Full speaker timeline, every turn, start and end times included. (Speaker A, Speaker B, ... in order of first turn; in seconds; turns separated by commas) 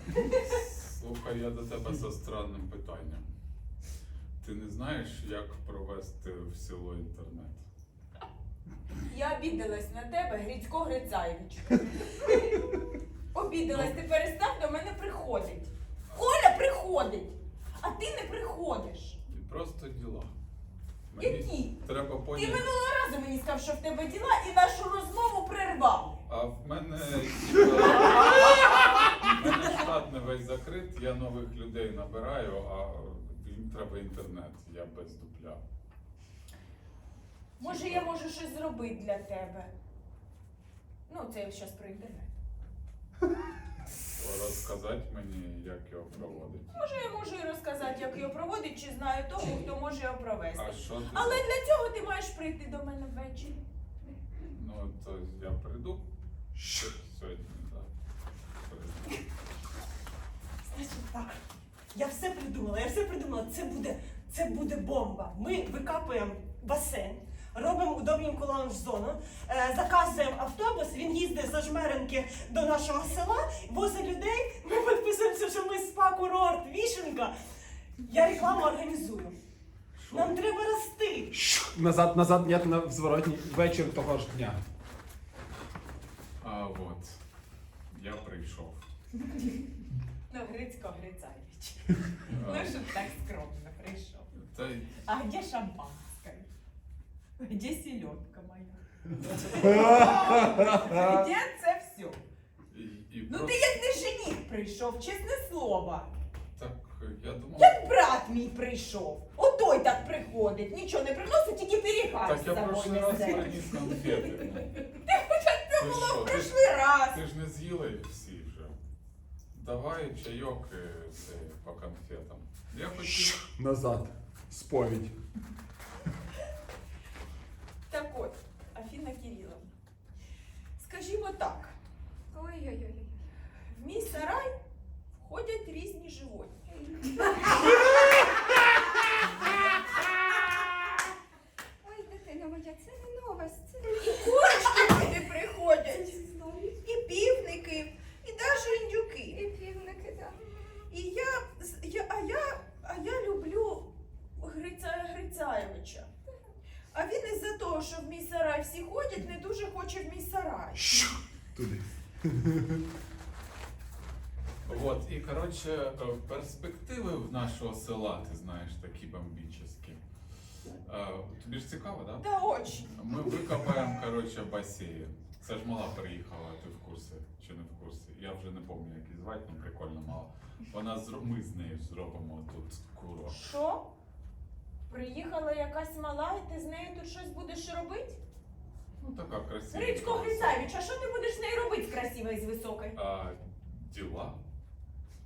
Speaker A: 0.4-3.3, Speaker A: 4.4-7.6, Speaker B: 9.1-12.7, Speaker B: 13.3-19.2, Speaker A: 19.3-20.3, Speaker A: 21.1-22.7, Speaker B: 21.1-21.8, Speaker B: 22.3-26.1, Speaker A: 26.3-35.6, Speaker B: 28.0-29.3, Speaker B: 37.6-39.7, Speaker A: 37.6-38.1, Speaker B: 41.1-42.3, Speaker A: 44.1-46.9, Speaker B: 46.7-53.6, Speaker A: 50.5-51.5, Speaker A: 54.5-56.0, Speaker C: 56.5-56.9, Speaker A: 56.7-57.9, Speaker A: 58.6-59.2, Speaker D: 60.7-61.4, Speaker D: 61.9-77.3, Speaker D: 78.0-79.4, Speaker A: 80.0-80.3, Speaker D: 80.1-81.3, Speaker C: 81.3-84.6, Speaker A: 86.4-87.2, Speaker A: 87.9-88.8, Speaker B: 90.3-94.3, Speaker A: 92.3-92.8, Speaker A: 94.3-94.9, Speaker B: 95.0-96.5, Speaker B: 97.4-102.2, Speaker C: 99.6-101.1, Speaker A: 102.7-103.7, Speaker B: 103.2-106.1, Speaker A: 106.5-107.8, Speaker B: 107.5-114.0, Speaker A: 112.2-114.8, Speaker B: 114.9-117.2, Speaker A: 115.8-118.7, Speaker A: 119.5-123.4, Speaker C: 123.1-125.1, Speaker B: 127.9-129.7, Speaker B: 130.8-131.7, Speaker E: 132.3-133.1, Speaker B: 133.7-134.5, Speaker B: 135.2-136.6, Speaker E: 136.7-137.7, Speaker E: 141.8-145.1, Speaker B: 143.9-146.2, Speaker E: 146.0-146.8, Speaker B: 146.8-149.5, Speaker E: 149.3-150.8, Speaker B: 150.9-156.1, Speaker B: 156.9-161.1, Speaker C: 160.7-162.8, Speaker A: 164.6-170.0, Speaker A: 170.8-172.3, Speaker B: 172.2-173.1, Speaker A: 172.9-183.4, Speaker B: 183.3-183.9, Speaker B: 184.9-188.2, Speaker A: 189.0-190.7, Speaker B: 189.7-192.9, Speaker A: 192.9-194.4